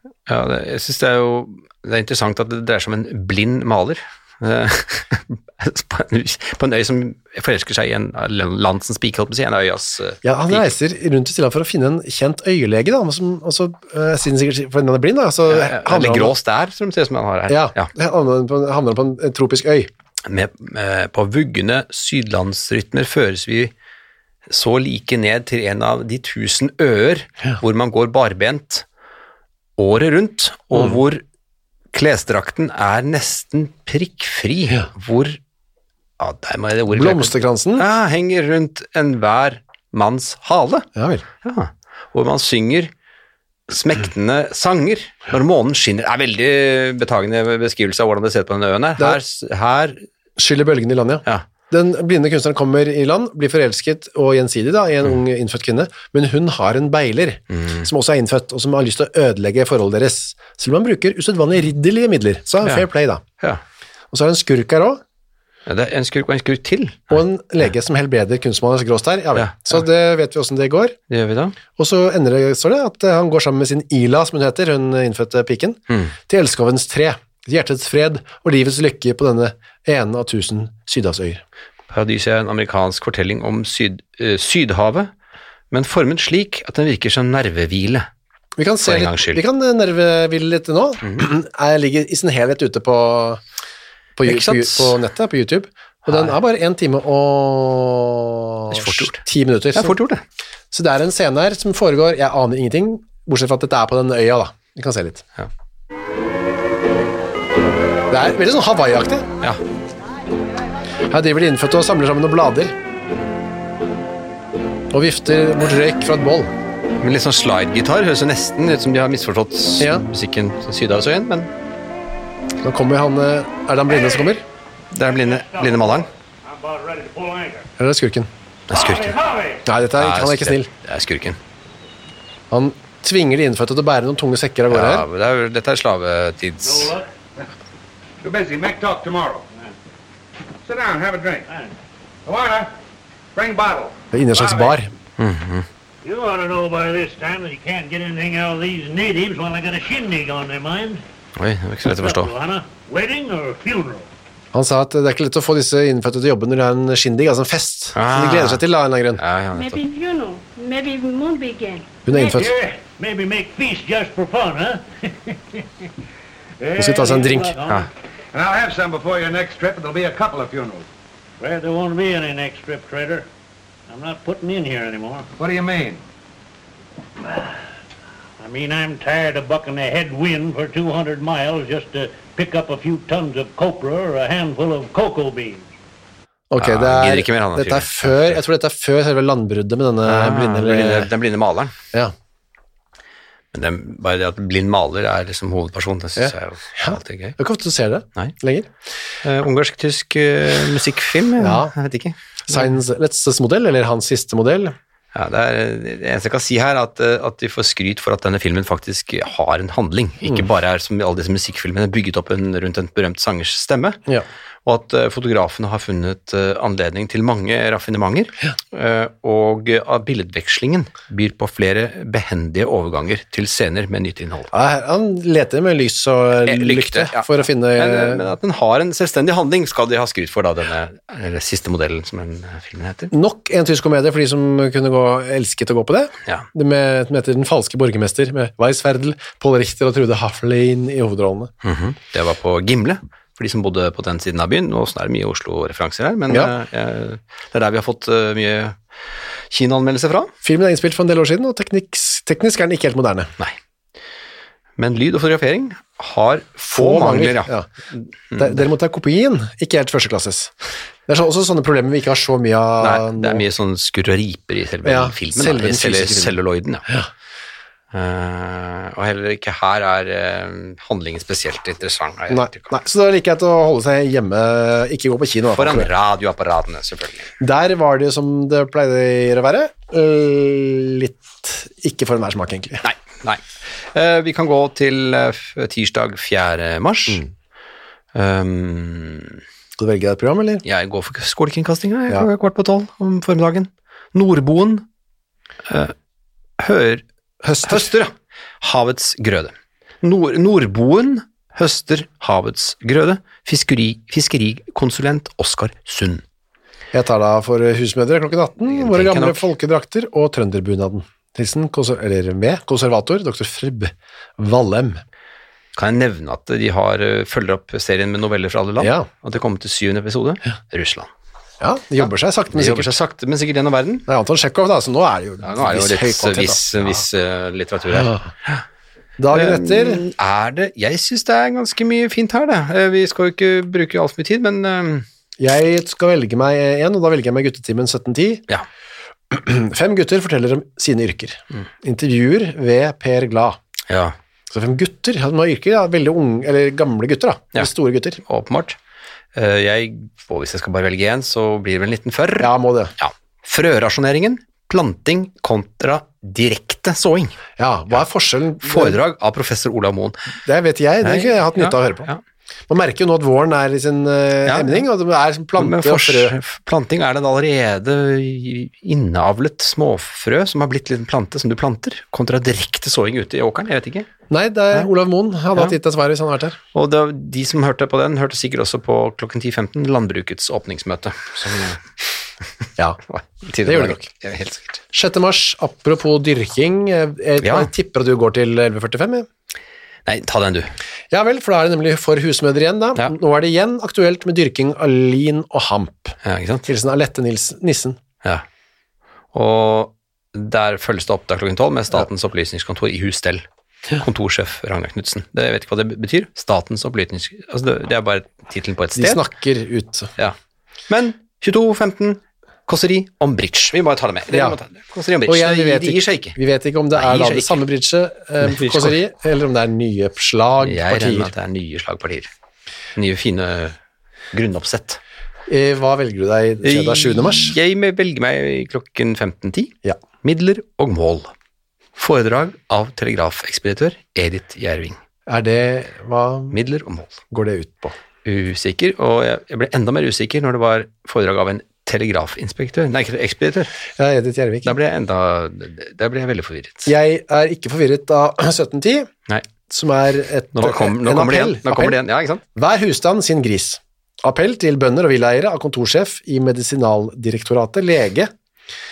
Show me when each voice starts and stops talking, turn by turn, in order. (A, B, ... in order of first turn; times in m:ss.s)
0:00.3-0:10.7 A
0:10.2-0:16.3 B
0:15.5-0:17.9 A
0:17.5-0:19.9 B
0:20.2-0:23.7 A
0:24.5-0:28.8 A
0:29.8-0:31.2 A
0:31.9-0:35.4 A
0:36.2-0:40.9 A
0:36.9-0:37.8 B
0:41.0-0:41.2 B
0:41.4-0:42.9 A
0:43.7-0:50.0 A
0:50.4-1:03.2 B
0:57.5-0:57.8 A
1:04.1-1:05.0 B
1:05.6-1:07.2 A
1:07.1-1:11.0 B
1:09.3-1:09.8 A
1:11.1-1:11.6 A
1:11.8-1:21.4 B
1:15.9-1:16.1 A
1:21.9-1:25.1 A
1:25.7-1:28.1 A
1:28.6-1:33.4 B
1:28.8-1:29.4 A
1:34.2-1:40.0 B
1:34.2-1:35.0 A
1:38.7-1:39.2 A
1:39.7-1:40.2 A
1:40.7-1:45.2 B
1:48.1-1:49.2 B
1:51.1-1:52.7 B
1:54.9-1:56.5 B
1:57.0-2:01.5 A
1:59.8-2:00.0 B
2:02.6-2:04.4 B
2:04.9-2:06.1 A
2:05.1-2:07.7 C
2:07.8-2:08.3 B
2:08.7-2:09.2 A
2:08.7-2:09.6 C
2:09.6-2:10.7 B
2:10.0-2:11.4 A
2:12.5-2:15.0 B
2:14.7-2:16.9 A
2:16.6-2:17.1 C
2:18.2-2:19.4 D
2:20.6-2:21.4 D
2:22.2-2:22.7 D
2:23.3-2:24.7 D
2:24.1-2:24.9 B
2:25.2-2:25.7 A
2:26.0-2:31.0 C
2:31.4-2:32.3 A
2:31.8-2:34.1 C
2:34.5-2:39.2 B
2:37.9-2:38.6 A
2:39.2-2:39.8 A
2:39.5-2:42.0 E
2:42.0-2:42.5 B
2:42.1-2:45.8 C
2:46.6-2:47.8 C
2:46.8-2:47.6 B
2:48.3-2:50.9 D
2:51.4-2:53.3 C
2:53.9-2:55.3 C
2:55.4-2:56.0 D
2:58.4-3:05.7 C
3:06.5-3:11.1 B
3:06.6-3:08.4 A
3:10.0-3:11.7 A
3:13.5-3:17.4 A
3:16.2-3:18.7 B
3:19.2-3:22.2 A
3:21.4-3:21.7 B
3:22.5-3:24.8 B
3:25.1-3:34.0 A
3:34.6-3:44.5 A
3:44.5-3:48.2 B
3:46.4-3:53.1 A
3:53.1-4:01.5 B
4:01.6-4:08.8 A
4:09.5-4:10.3 A
4:10.4-4:13.3 B
4:14.8-4:18.6 A
4:16.7-4:17.7 B
4:18.4-4:20.5 B
4:21.1-4:23.4 B
4:22.8-4:26.9 A
4:24.8-4:26.4 B
4:27.9-4:32.7 A
4:32.3-4:35.9 B
4:35.5-4:37.3 A
4:37.4-4:42.8 B
4:42.8-4:47.2 A
4:48.1-4:49.4 A
4:49.8-4:50.6 B
4:50.6-4:54.8 A
4:55.6-4:55.9 A
4:56.6-5:06.2 A
4:57.4-4:57.9 B
5:06.9-5:15.0 B
5:08.7-5:09.5 A
5:15.7-5:21.1 A
5:18.8-5:19.1 B
5:21.6-5:23.0 B
5:22.0-5:24.1 A
5:24.1-5:27.0 B
5:25.4-5:28.6 A
5:27.9-5:28.3 B
5:29.2-5:30.0 B
5:29.3-5:35.0 A
5:35.4-5:38.4 B
5:39.3-5:43.6 B
5:43.9-5:44.2 A
5:44.5-5:48.2 B
5:48.2-5:48.8 A
5:49.3-5:57.4 A
5:52.4-5:52.9 B
5:57.6-5:59.0 B
5:58.6-6:00.3 A
6:00.4-6:02.1 B
6:01.0-6:02.2 A
6:02.7-6:06.3 B
6:04.4-6:04.8 A
6:05.6-6:14.1 A
6:14.3-6:16.6 B
6:16.7-6:21.8 A
6:23.1-6:24.8 A
6:23.6-6:24.0 B
6:24.9-6:29.3 B
6:27.4-6:27.7 A
6:30.0-6:30.8 A
6:31.1-6:38.0 B
6:36.2-6:36.6 A
6:39.3-6:49.2 A
6:49.0-6:50.1 B
6:50.9-6:56.4 A
6:54.3-6:54.6 B
6:55.2-7:01.3 B
6:56.9-6:57.6 A
6:58.4-6:59.0 A
7:00.6-7:02.3 A
7:03.0-7:03.8 A
7:04.3-7:05.0 A
7:05.5-7:07.5 B
7:06.6-7:11.3 A
7:12.0-7:15.0 A
7:15.3-7:16.6 B
7:16.5-7:17.2 A
7:17.3-7:18.0 B
7:18.2-7:23.7 A
7:23.9-7:24.7 B
7:24.6-7:26.9 A
7:26.8-7:29.1 B
7:29.7-7:32.0 B
7:30.5-7:32.4 A
7:32.5-7:38.3 B